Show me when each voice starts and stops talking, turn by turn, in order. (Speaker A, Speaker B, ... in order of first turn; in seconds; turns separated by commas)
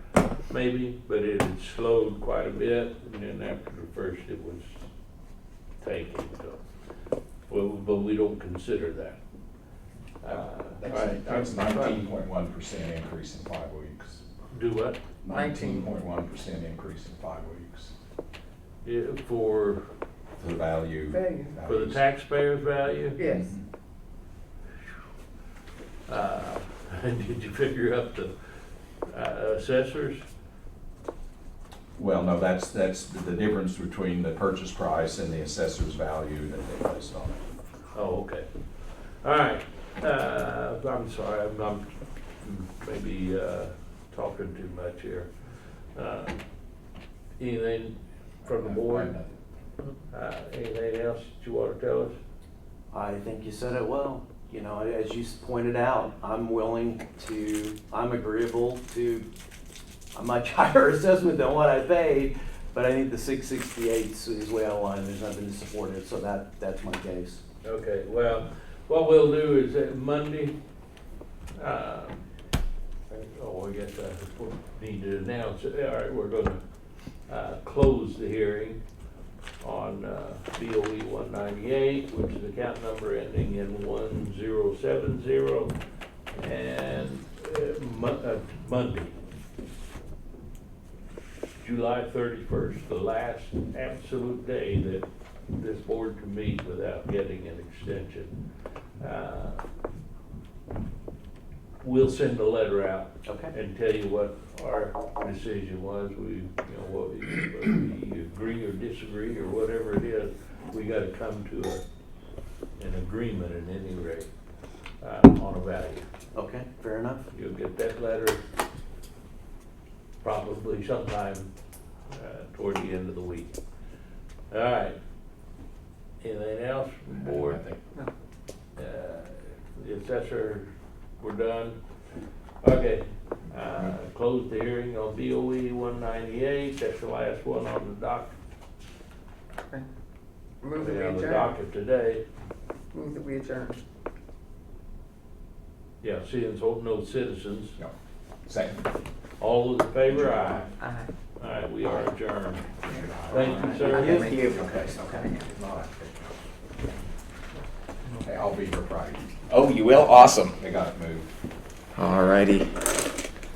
Speaker A: 0.5-4.8, Speaker A: 5.8-6.6, Speaker A: 7.5-9.2, Speaker A: 10.2-12.1, Speaker B: 10.8-14.2, Speaker A: 14.5-15.0, Speaker B: 15.2-17.9, Speaker C: 15.3-15.9, Speaker A: 18.8-19.8, Speaker B: 20.4-22.0, Speaker C: 21.1-21.5, Speaker A: 21.6-23.2, Speaker C: 23.2-23.5, Speaker B: 23.3-23.6, Speaker A: 26.1-28.3, Speaker A: 29.1-30.2, Speaker B: 32.0-37.4, Speaker A: 37.9-38.5, Speaker A: 39.1-41.9, Speaker A: 42.4-45.3, Speaker A: 45.9-46.4, Speaker A: 47.4-49.2, Speaker B: 48.5-49.4, Speaker A: 50.1-52.2, Speaker D: 52.9-59.3, Speaker D: 60.1-67.4, Speaker A: 67.6-70.6, Speaker A: 71.6-72.2, Speaker A: 73.1-76.6, Speaker A: 77.3-78.8, Speaker A: 79.6-85.7, Speaker A: 86.4-89.2, Speaker A: 91.6-98.3, Speaker A: 99.0-99.6, Speaker A: 101.8-111.8, Speaker D: 103.3-103.5, Speaker A: 112.8-114.3, Speaker A: 115.0-116.0, Speaker D: 116.3-117.3, Speaker A: 117.3-118.4, Speaker A: 120.2-121.5, Speaker A: 122.1-123.5, Speaker A: 124.5-125.0, Speaker A: 126.2-127.6, Speaker B: 127.2-127.8, Speaker A: 128.8-130.7, Speaker A: 131.2-131.8, Speaker A: 132.6-138.4, Speaker C: 140.6-141.6, Speaker A: 140.8-142.2, Speaker C: 142.9-143.8, Speaker A: 146.0-147.8, Speaker B: 148.5-148.9, Speaker A: 149.4-150.8, Speaker B: 150.1-150.7, Speaker C: 150.8-151.1, Speaker A: 151.4-152.7, Speaker B: 152.9-153.8, Speaker A: 153.3-154.4, Speaker C: 153.3-154.7, Speaker D: 153.6-154.4, Speaker E: 153.9-155.4, Speaker B: 154.3-156.4, Speaker B: 158.2-159.3, Speaker E: 159.5-160.5, Speaker B: 159.9-161.3, Speaker E: 162.0-162.7